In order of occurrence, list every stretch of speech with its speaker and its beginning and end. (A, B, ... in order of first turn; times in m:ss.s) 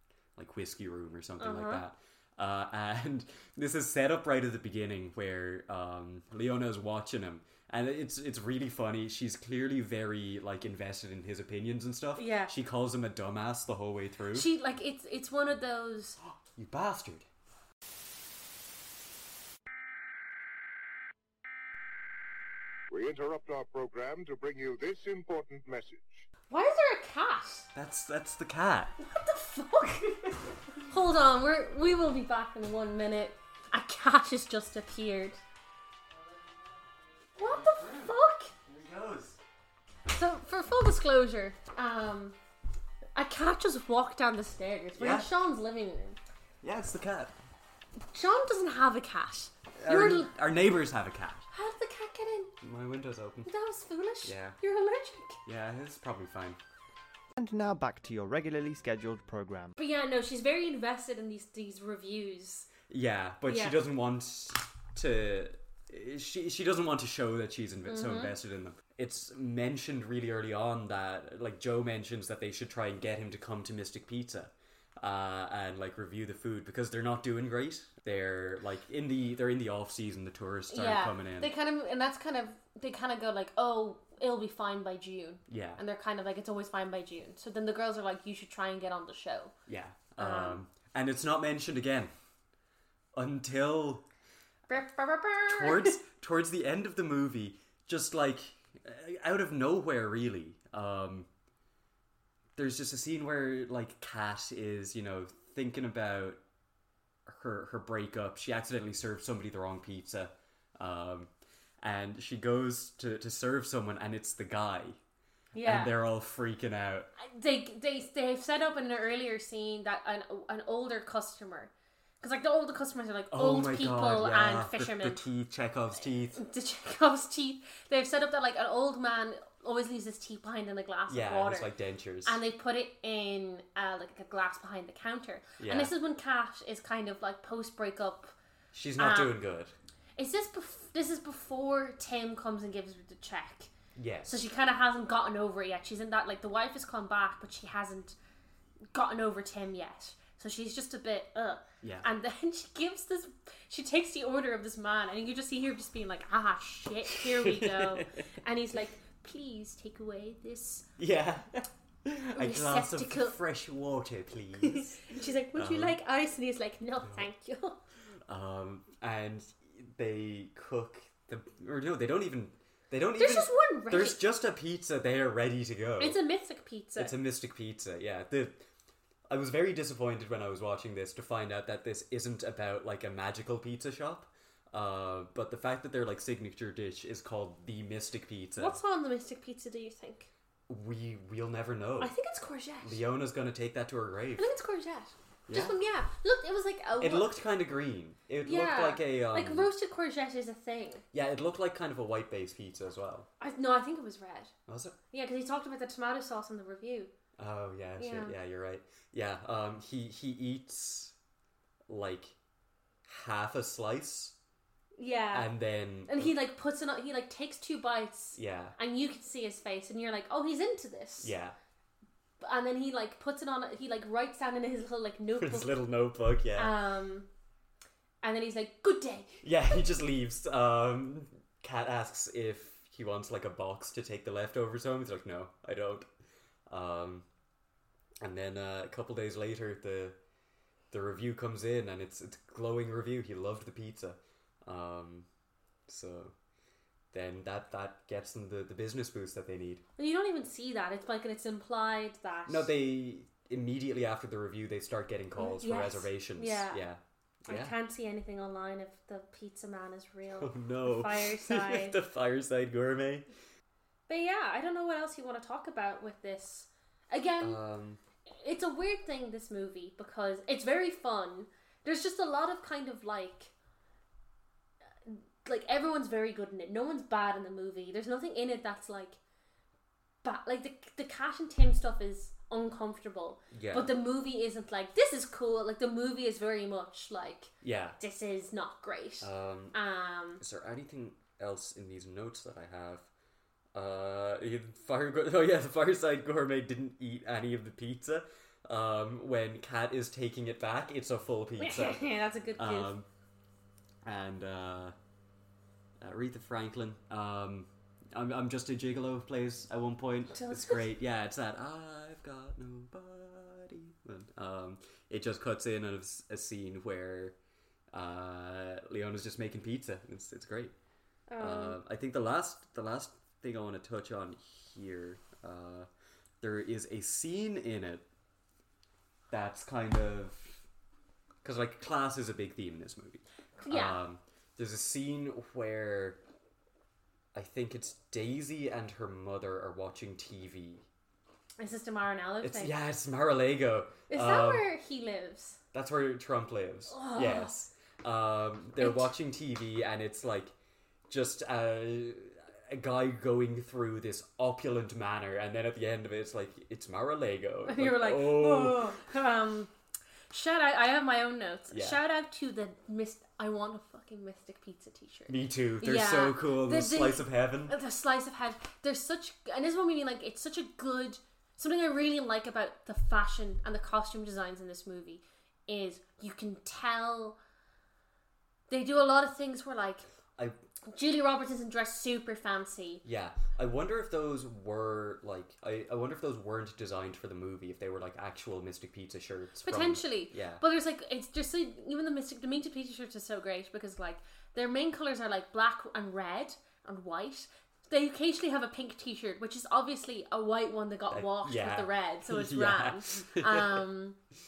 0:00.4-0:14.5 A
0:01.4-0:01.8 B
0:12.2-0:12.5 B
0:14.3-0:16.2 B
0:16.2-0:17.3 A
0:22.9-0:26.3 C
0:26.5-0:27.7 B
0:27.7-0:29.0 A
0:29.0-0:35.4 B
0:37.4-0:39.4 A
0:37.4-0:38.5 B
0:40.1-0:42.4 B
0:43.2-0:46.2 B
0:45.0-0:45.3 A
0:46.6-0:47.3 A
0:48.1-0:50.3 B
0:49.8-0:51.5 A
0:51.5-0:52.5 B
0:52.6-0:53.5 A
0:53.5-0:55.4 B
0:54.2-0:54.6 A
0:55.5-0:56.6 A
0:57.4-0:59.7 D
0:59.8-1:02.7 B
1:02.9-1:21.5 A
1:03.5-1:03.8 B
1:07.9-1:08.4 B
1:20.7-1:29.5 B
1:25.5-1:25.8 A
1:29.7-1:32.1 A
1:30.2-1:30.6 B
1:33.2-1:34.0 A
1:34.7-1:36.0 B
1:35.5-1:41.3 A
1:42.6-1:46.4 A
1:47.3-1:51.3 A
1:51.8-1:55.0 A
1:55.5-1:55.9 B
1:55.6-1:57.1 A
1:57.2-2:05.2 B
2:03.3-2:06.4 A
2:06.4-2:11.7 B
2:11.1-2:12.4 A
2:12.2-2:18.3 B
2:15.6-2:15.9 A
2:18.7-2:19.7 A
2:19.0-2:19.4 B
2:20.2-2:23.7 B
2:24.0-2:24.4 A
2:24.3-2:28.2 B
2:28.9-2:40.9 B
2:31.8-2:32.1 A
2:37.1-2:38.1 A
2:41.0-2:46.0 A
2:42.4-2:43.4 B
2:44.6-2:47.8 B
2:48.3-2:56.2 A
2:53.2-2:54.2 B
2:56.0-2:57.2 B
2:57.0-2:58.6 A
2:59.3-3:08.8 A
3:08.6-3:10.3 B
3:10.7-3:12.1 A
3:12.0-3:13.0 B
3:12.8-3:14.5 A
3:14.4-3:17.3 B
3:15.5-3:15.8 A
3:17.0-3:19.7 A
3:18.4-3:21.0 B
3:21.1-3:23.3 A
3:23.4-3:24.5 B
3:24.7-3:25.0 A
3:25.1-3:27.1 B
3:27.4-3:31.2 A
3:28.0-3:28.4 B
3:31.9-3:32.4 A
3:33.0-3:34.4 A
3:35.0-3:35.5 B
3:35.3-3:36.4 A
3:36.1-3:41.3 B
3:38.4-3:38.8 A
3:41.2-3:41.6 A
3:42.4-3:45.7 B
3:45.4-3:46.8 A
3:46.6-3:47.3 B
3:48.2-3:49.8 B
3:49.4-3:56.1 A
3:56.7-3:57.3 A
3:58.2-4:00.2 A
4:00.9-4:05.3 A
4:05.9-4:06.3 A
4:07.1-4:09.8 A
4:10.0-4:12.7 B
4:12.5-4:17.8 A
4:15.4-4:16.8 B
4:17.5-4:22.0 B
4:20.4-4:23.3 A
4:24.1-4:27.6 B
4:27.4-4:28.0 A
4:28.4-4:33.5 B
4:35.0-4:39.2 B
4:40.2-4:50.4 B
4:43.5-4:43.9 A
4:47.6-4:48.0 A
4:49.2-4:49.8 A
4:50.4-4:53.1 A
4:53.7-5:03.1 A
5:01.6-5:02.9 B
5:04.0-5:05.0 A
5:06.0-5:17.4 A
5:10.3-5:10.9 B
5:17.9-5:20.7 A
5:21.3-5:21.8 B
5:21.4-5:25.9 A
5:26.4-5:28.0 A
5:29.3-5:30.6 A
5:31.4-5:36.2 A
5:33.6-5:34.0 B
5:37.3-5:40.8 A
5:41.6-5:42.7 B
5:42.4-5:44.7 A
5:44.1-5:45.6 B
5:45.7-5:50.5 A
5:46.9-5:47.5 B
5:48.8-5:49.1 B
5:51.1-5:59.0 A
5:57.7-5:59.7 B
6:00.3-6:17.4 B
6:01.7-6:02.0 A
6:05.3-6:07.7 A
6:18.7-6:20.0 B
6:20.9-6:23.0 B
6:23.0-6:30.6 A
6:29.6-6:44.2 B
6:41.1-6:43.8 A